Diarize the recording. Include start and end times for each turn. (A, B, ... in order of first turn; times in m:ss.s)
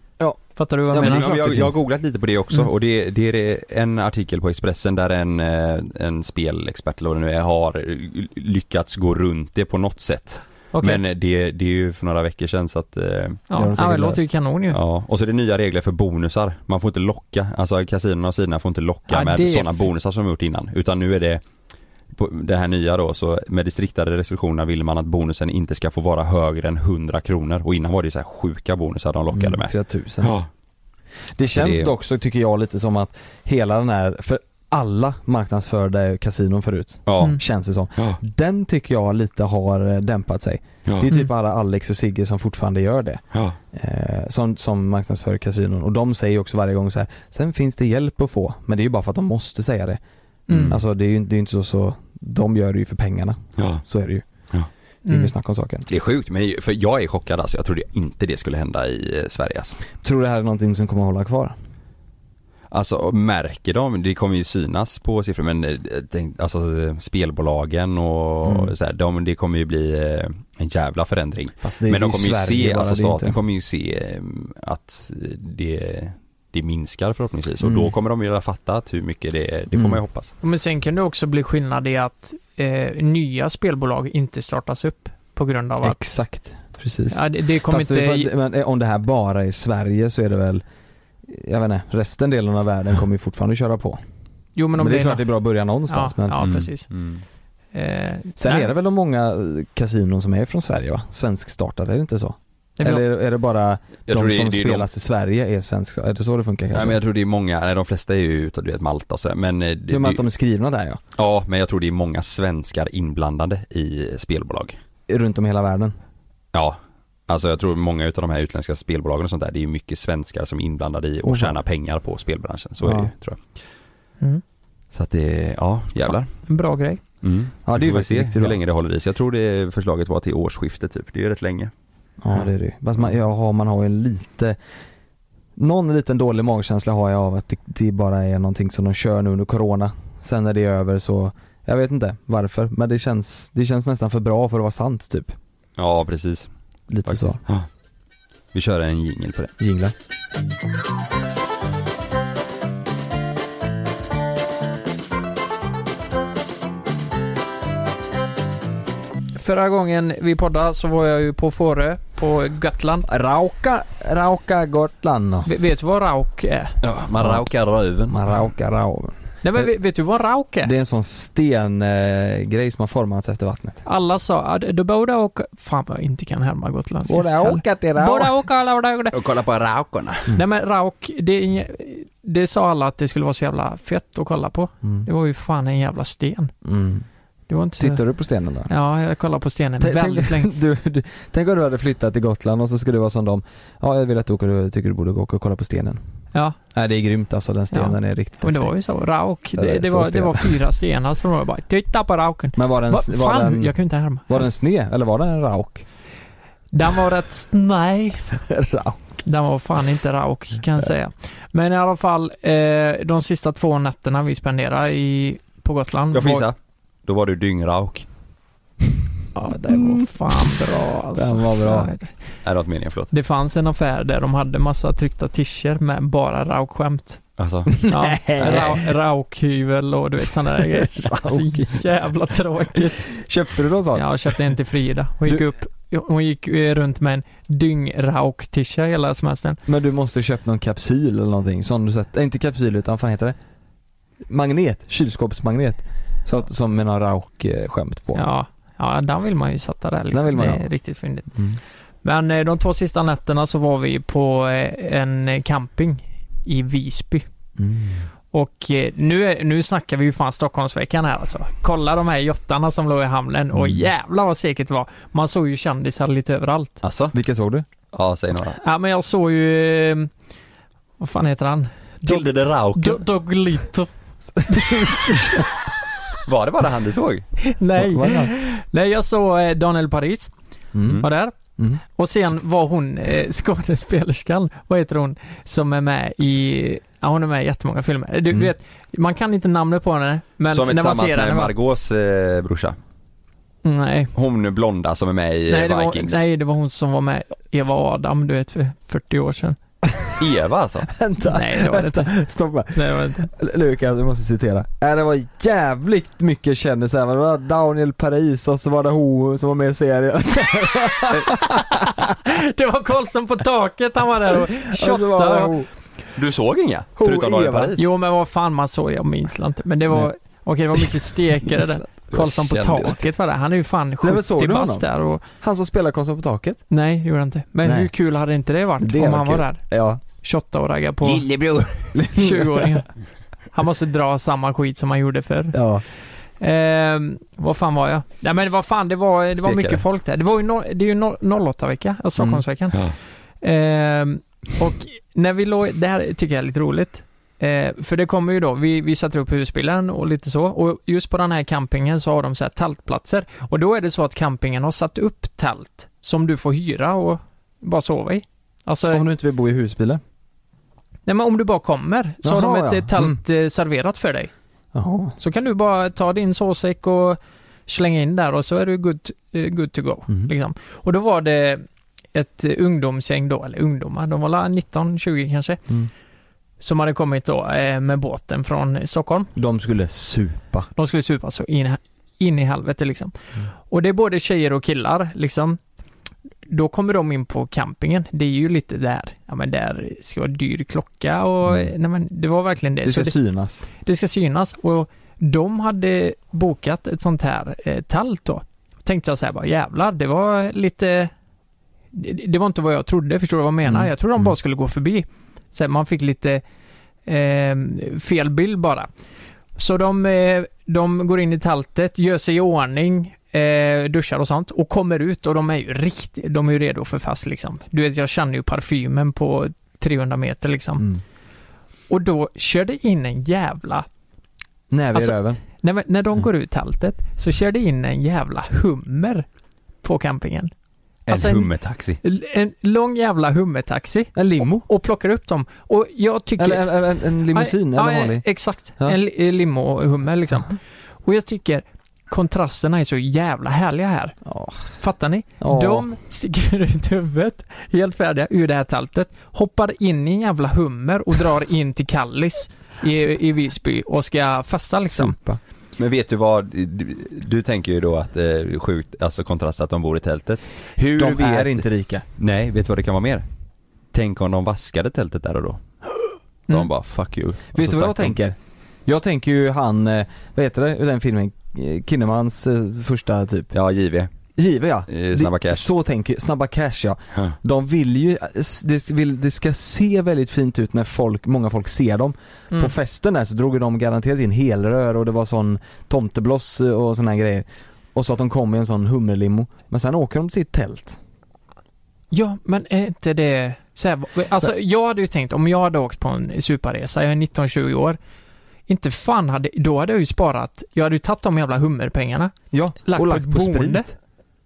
0:00.2-0:01.8 A
0:00.6-0:01.3 B
0:00.9-0:13.4 C
0:10.7-0:11.0 B
0:13.5-0:14.8 B
0:13.5-0:14.2 A
0:14.7-0:21.4 C
0:19.1-0:19.8 B
0:22.1-0:30.5 C
0:29.3-0:30.3 A
0:31.4-0:43.2 A
0:31.5-0:31.9 C
0:37.1-0:37.4 C
0:43.7-0:50.0 A
0:50.5-0:50.7 B
0:50.5-0:50.8 C
0:50.7-0:54.2 A
0:55.0-0:55.3 B
0:55.1-0:55.9 A
0:55.9-0:59.8 C
1:00.0-1:01.5 A
1:02.7-1:20.3 C
1:08.4-1:08.7 A
1:11.6-1:13.4 A
1:17.6-1:17.9 A
1:19.7-1:20.0 A
1:20.4-1:26.0 B
1:25.8-1:30.6 A
1:27.1-1:28.3 B
1:31.3-1:34.0 A
1:34.6-1:35.3 B
1:34.8-1:36.4 A
1:35.9-1:36.9 B
1:36.4-1:37.2 C
1:37.7-1:38.7 B
1:38.4-1:47.0 A
1:42.8-1:43.0 B
1:44.1-1:44.8 C
1:46.7-1:50.2 C
1:49.9-1:51.0 A
1:51.2-1:54.8 C
1:55.1-1:55.9 A
1:57.3-2:03.4 C
2:01.2-2:01.6 A
2:02.8-2:03.1 A
2:04.9-2:06.3 C
2:06.5-2:07.0 B
2:07.2-2:11.7 C
2:07.6-2:08.6 A
2:12.2-2:14.6 A
2:15.6-2:25.4 A
2:25.8-2:26.5 C
2:26.9-2:27.4 A
2:27.0-2:27.7 C
2:28.5-2:29.5 C
2:29.6-2:29.9 A
2:39.3-2:43.1 B
2:43.0-2:45.5 A
2:45.4-2:46.7 B
2:46.8-2:48.2 C
2:48.1-2:49.6 A
2:49.4-2:50.7 B
2:50.6-2:53.8 A
2:53.8-2:59.2 B
2:57.0-2:58.3 A
2:59.1-3:00.3 C
3:00.3-3:06.5 B
3:06.6-3:07.0 A
3:07.5-3:08.0 B
3:07.8-3:08.7 A
3:08.7-3:10.5 B
3:09.8-3:16.0 A
3:16.7-3:18.7 A
3:17.7-3:24.4 B
3:19.6-3:20.5 A
3:22.6-3:23.7 A
3:24.3-3:25.8 A
3:26.7-3:28.4 B
3:28.3-3:29.0 A
3:29.2-3:36.4 B
3:36.1-3:36.5 C
3:37.0-3:38.0 C
3:39.3-3:42.1 B
3:41.1-3:41.9 A
3:42.4-3:43.1 C
3:43.1-3:47.2 B
3:47.4-3:48.8 C
3:47.8-3:48.8 A
3:47.9-3:53.1 B
3:50.7-3:51.8 A
3:52.7-3:54.1 A
3:53.9-3:59.6 B
3:59.7-4:03.4 A
4:04.3-4:08.2 A
4:08.1-4:11.3 B
4:10.1-4:10.6 A
4:11.3-4:11.6 A
4:12.0-4:17.2 B
4:17.6-4:18.0 A
4:18.3-4:26.8 B
4:26.8-4:27.1 C
4:27.1-4:27.6 A
4:27.9-4:28.6 C
4:28.6-4:30.1 B
4:31.0-4:33.9 B
4:32.0-4:33.0 C
4:34.5-4:35.4 B
4:34.6-4:35.4 A
4:36.2-4:37.3 C
4:37.5-4:40.3 B
4:37.8-4:38.3 A
4:40.7-4:41.0 A
4:41.0-4:41.3 B
4:42.0-4:51.5 B
4:50.5-4:52.8 C
4:53.6-4:54.1 B
4:54.1-4:56.2 C
4:55.5-4:59.6 B
5:00.2-5:00.9 C
5:00.9-5:11.7 A
5:01.3-5:02.1 B
5:02.7-5:03.3 B
5:11.5-5:15.5 B
5:14.5-5:15.7 A
5:16.2-5:17.9 C
5:17.0-5:17.7 A
5:17.8-5:25.2 B
5:22.1-5:23.0 C
5:24.0-5:24.8 A
5:25.4-5:26.6 A
5:26.7-5:29.6 B
5:27.6-5:27.9 A
5:28.8-5:30.0 A
5:30.2-5:31.2 B
5:31.0-5:32.0 C
5:31.9-5:32.8 A
5:32.1-5:32.9 B
5:33.5-5:35.6 B
5:35.5-5:35.8 A
5:36.4-5:42.8 B
5:39.4-5:39.8 C
5:42.2-5:42.4 A
5:43.4-5:59.0 B
5:58.9-6:00.0 A
6:01.0-6:04.3 B
6:02.2-6:03.2 A
6:04.7-6:05.2 A
6:05.2-6:15.6 B
6:16.6-6:19.3 B
6:19.3-6:20.7 A
6:20.8-6:23.1 B
6:23.7-6:25.6 B
6:26.5-6:33.2 B
6:32.8-6:33.7 A
6:33.8-6:41.1 B
6:41.9-6:46.4 B
6:43.6-6:44.3 A
6:47.0-6:48.9 B
6:49.6-7:00.8 B
7:01.9-7:03.9 B
7:04.7-7:05.4 A
7:04.9-7:09.2 B
7:09.8-7:10.5 B
7:11.1-7:12.0 C
7:11.1-7:11.5 B
7:12.0-7:16.7 B
7:14.1-7:14.7 A
7:16.4-7:18.2 A
7:17.3-7:24.2 B
7:24.2-7:24.7 A
7:24.8-7:35.2 B
7:25.4-7:25.9 A
7:34.9-7:35.4 A
7:35.8-7:41.6 C
7:41.0-7:42.0 A
7:42.2-7:43.2 C
7:43.9-7:45.6 C
7:46.5-7:48.2 C
7:47.5-7:53.5 A
7:53.5-7:54.1 C
7:54.4-8:11.0 A
7:54.9-7:55.7 C
8:12.1-8:18.0 B
8:18.7-8:23.9 B
8:22.5-8:23.9 A